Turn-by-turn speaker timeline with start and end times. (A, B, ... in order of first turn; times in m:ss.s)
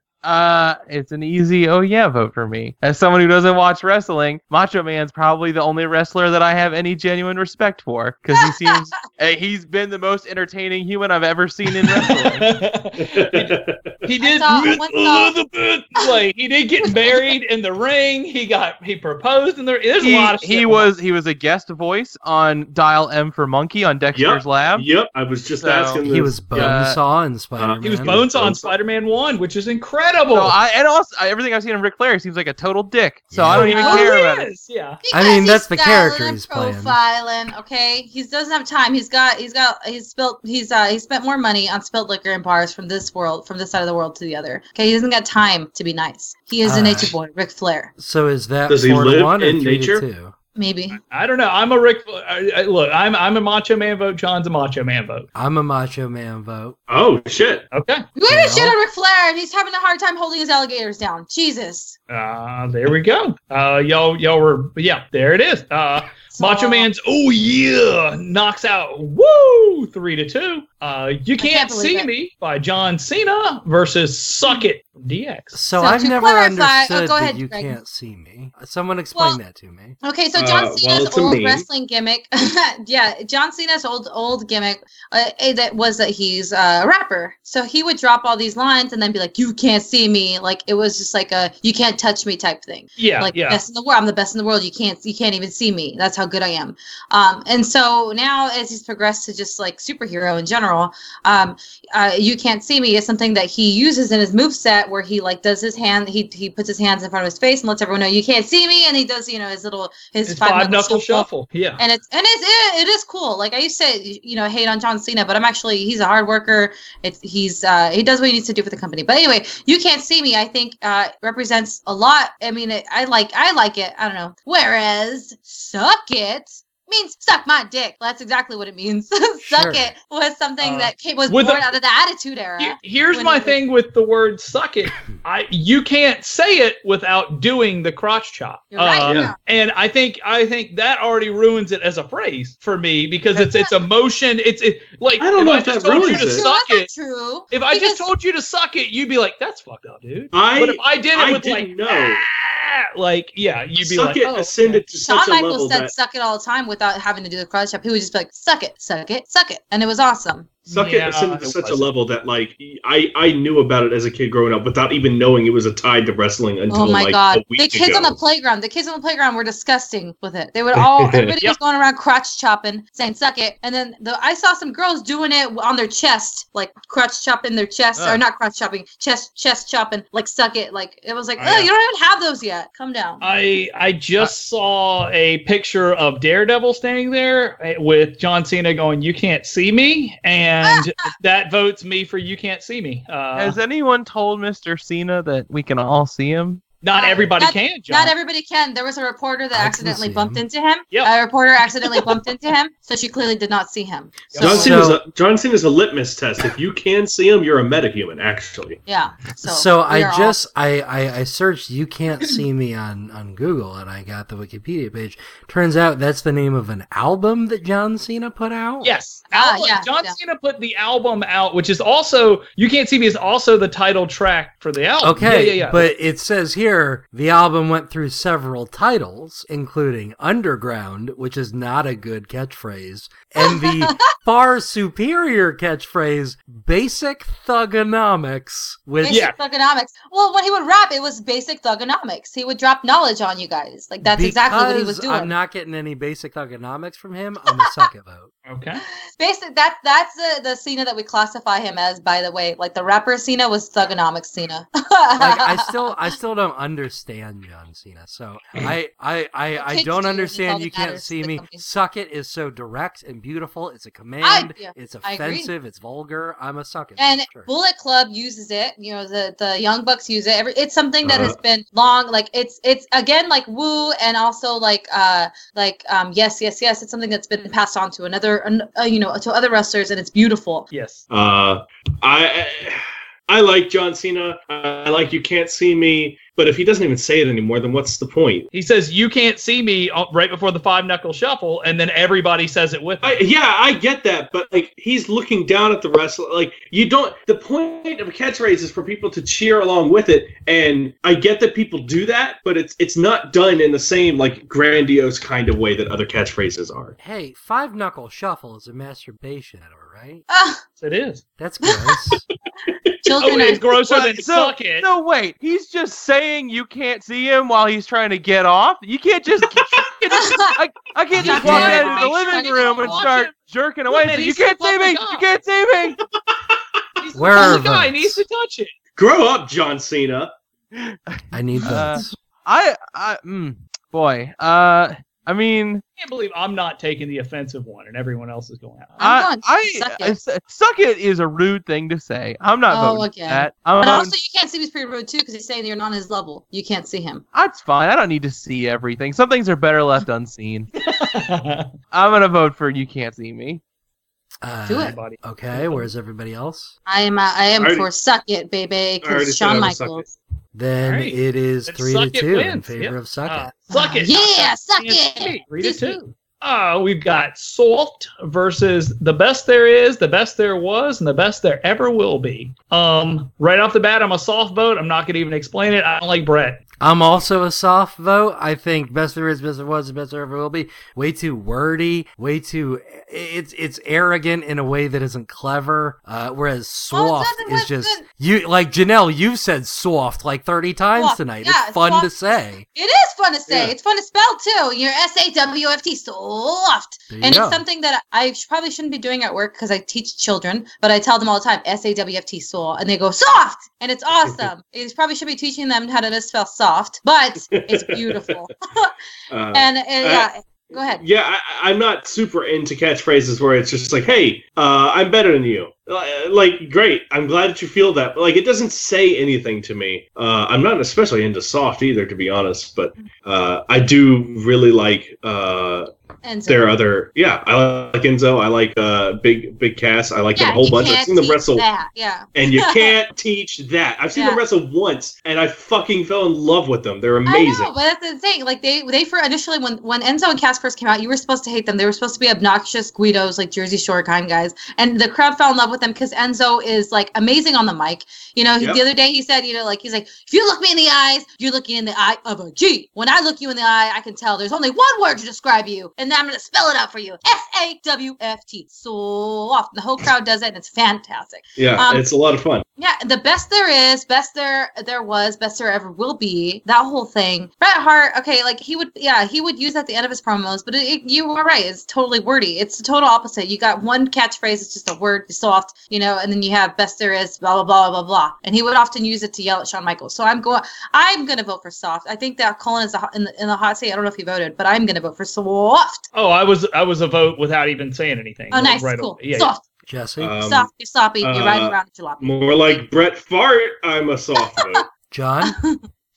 0:00.2-0:12.5 A
0:08.4-0:08.9 B
0:11.9-0:20.9 C
0:13.0-0:14.0 D
0:14.2-0:15.4 B
0:20.0-0:24.9 A
0:24.1-0:26.8 D
0:25.6-0:27.0 A
0:26.0-0:28.2 E
0:27.6-0:28.8 D
0:27.8-0:30.6 C
0:30.3-0:34.5 A
0:33.3-0:33.8 E
0:33.5-0:35.0 C
0:33.7-0:34.1 B
0:35.0-0:47.9 B
0:35.1-0:37.0 E
0:46.6-0:47.2 E
0:48.0-0:50.3 E
0:48.7-0:50.0 D
0:50.6-0:51.0 B
0:50.9-0:55.3 C
0:55.4-0:56.8 E
0:56.9-0:57.7 D
0:57.7-0:58.1 C
0:58.2-1:02.0 B
0:58.3-0:58.8 E
1:02.1-1:15.6 C
1:06.4-1:06.9 B
1:11.4-1:12.1 B
1:15.5-1:20.0 E
1:15.8-1:17.8 B
1:20.0-2:13.6 B
1:20.4-1:21.7 D
1:33.0-1:33.6 C
1:50.3-1:51.8 C
2:09.4-2:09.9 E
2:10.6-2:11.7 C
2:12.6-2:26.9 C
2:18.7-2:19.4 B
2:19.0-2:19.3 D
2:23.4-2:23.8 B
2:25.2-2:26.5 D
2:25.9-2:28.1 B
2:27.5-2:34.8 C
2:30.3-2:32.2 D
2:33.8-2:35.9 D
2:35.0-2:40.6 B
2:40.7-2:48.2 D
2:40.7-2:41.9 C
2:46.7-3:03.2 B
2:50.7-2:51.4 D
3:01.4-3:01.7 C
3:03.2-3:13.6 C
3:13.4-3:16.6 A
3:16.8-3:18.1 C
3:17.0-3:24.8 B
3:19.5-3:20.4 E
3:24.3-3:24.7 C
3:24.4-3:28.8 D
3:24.4-3:25.0 E
3:28.9-3:30.4 B
3:29.4-3:39.0 E
3:38.8-3:45.9 C
3:39.3-3:40.2 B
3:45.0-3:59.3 E
3:53.4-3:54.0 B
3:59.0-4:05.3 B
3:59.1-3:59.4 C
4:04.0-4:08.3 E
4:08.5-4:08.8 C
4:09.2-4:15.7 B
4:15.2-4:27.5 E
4:19.6-4:21.6 B
4:24.2-4:25.5 B
4:27.0-4:40.7 B
4:31.0-4:31.4 D
4:40.7-4:41.0 C
4:41.1-4:48.5 D
4:48.5-4:53.2 C
4:53.0-5:07.0 D
5:07.0-5:10.2 E
5:10.3-5:10.6 B
5:10.8-5:11.2 C
5:11.4-5:12.2 E
5:11.6-5:11.9 B
5:13.0-5:13.6 B
5:13.2-5:14.9 C
5:13.9-5:26.0 A
5:20.1-5:20.6 B
5:21.2-5:23.1 B
5:21.2-5:23.3 C
5:21.2-5:21.9 E
5:23.9-5:25.3 C
5:27.0-5:28.7 C
5:27.1-5:28.2 E
5:29.0-5:30.3 D
5:30.8-5:35.8 A
5:31.3-5:32.2 E
5:36.0-5:39.0 C
5:39.0-5:40.2 B
5:39.0-5:44.1 A
5:42.7-5:47.2 B
5:47.3-5:50.7 A
5:50.9-5:51.7 C
5:51.9-5:53.6 A
5:54.4-5:56.8 E
5:54.7-5:55.0 B
5:54.8-5:55.9 C
5:56.9-6:00.1 B
5:57.6-5:57.9 D
5:59.0-6:00.1 D
6:00.5-6:03.5 E
6:00.8-6:16.6 C
6:03.7-6:06.0 B
6:16.8-6:32.7 E
6:26.9-6:28.0 B
6:31.0-6:48.9 B
6:33.5-6:33.7 D
6:37.1-6:37.6 E
6:47.5-6:48.3 D
6:49.3-6:50.3 D
6:49.5-6:51.0 B
6:50.8-7:05.9 D
7:06.2-7:06.8 B
7:06.5-7:11.7 D
7:10.4-7:13.0 B
7:12.4-7:17.8 D
7:14.2-7:14.4 B
7:17.3-7:42.0 B
7:41.6-7:42.6 D
7:42.8-8:06.1 B
8:06.1-8:09.5 C
8:08.5-8:09.6 B
8:09.9-8:10.4 E
8:10.2-8:10.7 D
8:10.4-8:12.8 B
8:11.2-8:14.9 D
8:14.4-8:14.8 B
8:15.1-8:15.6 E
8:15.4-8:15.8 B